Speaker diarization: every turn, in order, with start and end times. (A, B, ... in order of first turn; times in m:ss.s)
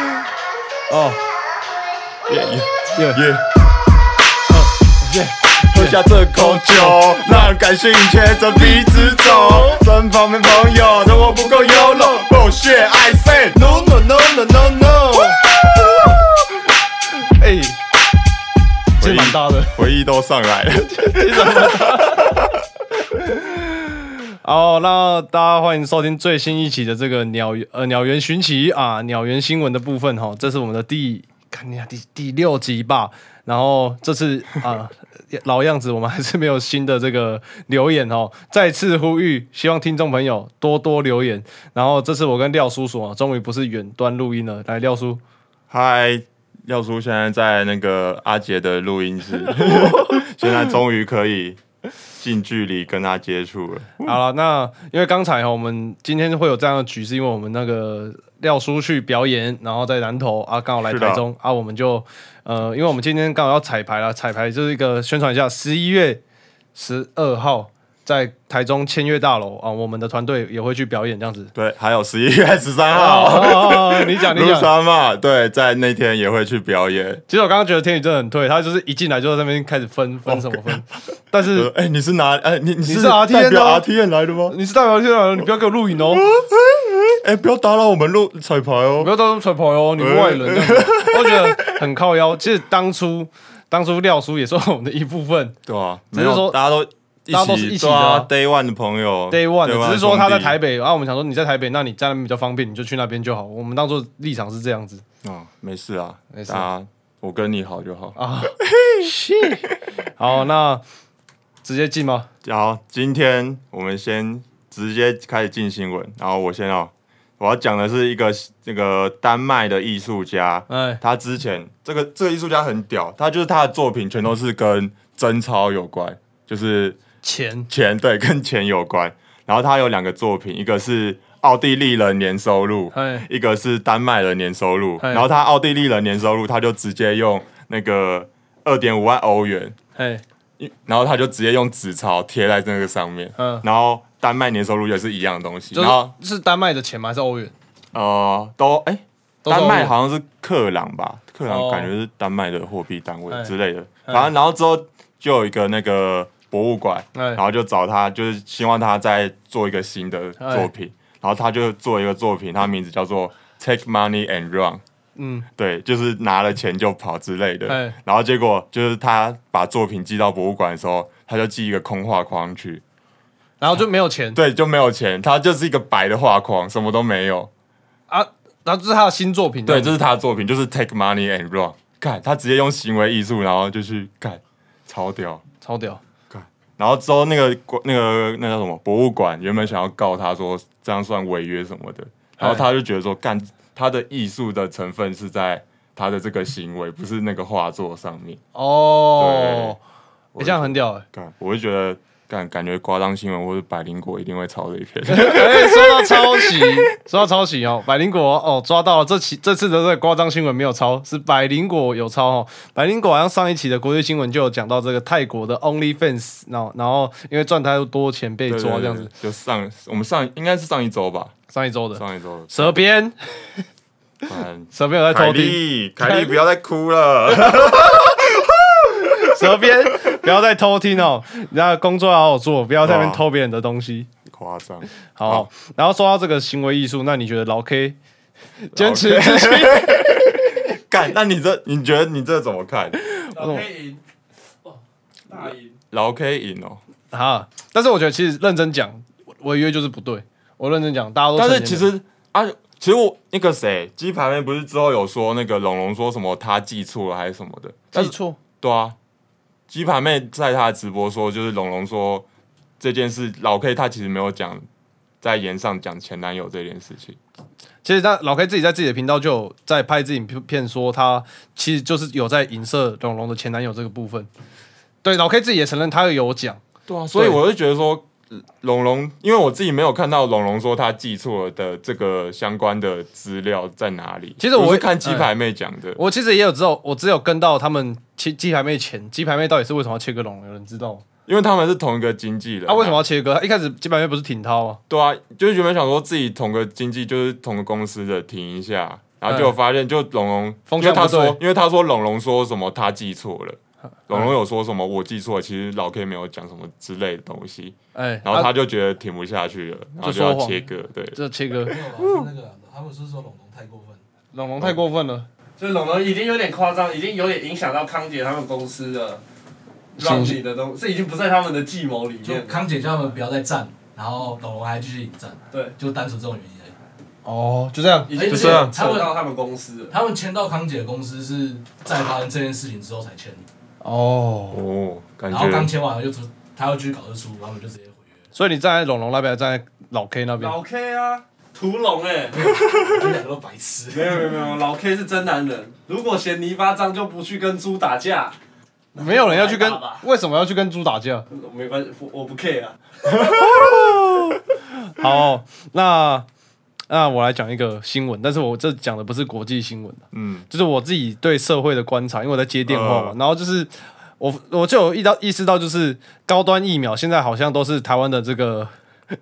0:00.9-0:01.2 A
0:02.3-0:03.4 B
0:02.9-0:03.2 A
0:04.5-0:07.5 A
0:05.7-0:13.6 B
0:08.6-0:09.4 A
0:11.3-0:12.2 C
0:13.5-0:15.4 C
0:17.2-0:17.8 A
0:19.0-0:19.7 A
0:19.0-0:22.5 B
0:20.9-0:22.4 A
0:23.0-0:45.2 A
0:45.7-0:51.6 B
0:52.2-0:54.2 B
0:54.0-1:06.2 A
1:00.8-1:01.2 B
1:06.7-1:11.5 A
1:11.5-1:17.2 B
1:12.9-1:14.7 A
1:17.3-1:21.7 A
1:20.3-1:20.8 B
1:21.4-1:24.5 B
1:22.8-1:23.9 A
1:24.5-1:26.2 A
1:26.1-1:29.1 B
1:29.0-1:35.6 A
1:30.0-1:31.8 B
1:35.6-1:40.6 B
1:36.1-1:36.6 A
1:37.3-1:38.3 A
1:39.3-1:45.0 A
1:45.2-1:49.1 B
1:46.3-1:46.7 A
1:48.2-1:50.8 A
1:51.6-1:52.3 A
1:52.4-2:07.0 B
2:00.7-2:01.0 A
2:07.2-2:07.7 A
2:07.7-2:19.7 B
2:12.9-2:13.3 A
2:15.0-2:15.3 A
2:20.0-2:20.2 A
2:20.6-2:26.1 B
2:23.4-2:23.6 A
2:25.7-2:27.5 A
2:27.9-2:44.8 B
2:29.4-2:29.9 A
2:31.5-2:31.9 A
2:37.1-2:37.4 A
2:40.4-2:40.7 A
2:45.2-2:45.4 A
2:45.6-2:52.8 B
2:47.7-2:48.0 A
2:53.6-2:54.4 A
2:54.3-2:57.5 B
2:58.1-3:00.0 A
2:59.6-3:05.4 B
3:05.6-3:06.0 A
3:06.3-3:18.4 B
3:12.4-3:12.6 A
3:18.5-3:19.8 A
3:19.2-3:19.8 B
3:20.3-3:26.9 B
3:20.4-3:21.0 A
3:25.1-3:39.1 A
3:38.5-3:41.3 B
3:41.5-3:43.6 A
3:42.0-3:42.8 B
3:44.3-3:49.4 B
3:44.7-3:46.4 A
3:49.2-3:54.1 A
3:52.8-3:53.2 B
3:54.2-3:55.5 B
3:55.2-3:58.0 A
3:58.6-4:00.3 A
3:58.7-4:03.0 B
4:03.3-4:04.0 C
4:03.4-4:03.6 A
4:05.3-4:05.8 C
4:05.9-4:06.8 B
4:07.1-4:11.9 A
4:11.3-4:18.9 B
4:17.9-4:18.4 A
4:19.7-4:22.2 B
4:22.8-4:24.6 B
4:25.2-4:27.2 B
4:27.8-4:34.3 A
4:35.0-4:36.6 A
4:36.9-4:46.0 B
4:37.1-4:37.4 A
4:44.4-4:45.3 A
4:46.0-4:51.0 A
4:51.2-4:53.0 B
4:52.7-4:54.8 A
4:54.9-5:11.2 B
4:59.3-4:59.5 A
5:00.7-5:01.4 A
5:07.9-5:08.5 A
5:10.0-5:11.8 A
5:11.6-5:14.0 D
5:14.3-5:15.2 A
5:15.6-5:19.2 C
5:20.0-5:22.6 C
5:20.0-5:20.4 A
5:22.2-5:26.8 D
5:27.2-5:28.6 A
5:28.1-5:29.9 C
5:28.1-5:29.2 D
5:28.2-5:28.7 B
5:29.9-5:33.4 D
5:33.8-5:34.6 A
5:34.5-5:35.7 B
5:35.3-5:38.2 D
5:38.3-5:40.5 A
5:40.4-5:42.6 C
5:42.3-5:44.4 D
5:43.9-5:48.4 C
5:48.9-5:50.0 C
5:49.0-5:51.2 A
5:51.3-5:52.8 C
5:53.3-5:53.8 B
5:53.5-5:54.3 A
5:54.9-5:56.2 A
5:56.9-6:08.7 A
6:00.1-6:00.5 B
6:02.6-6:03.2 B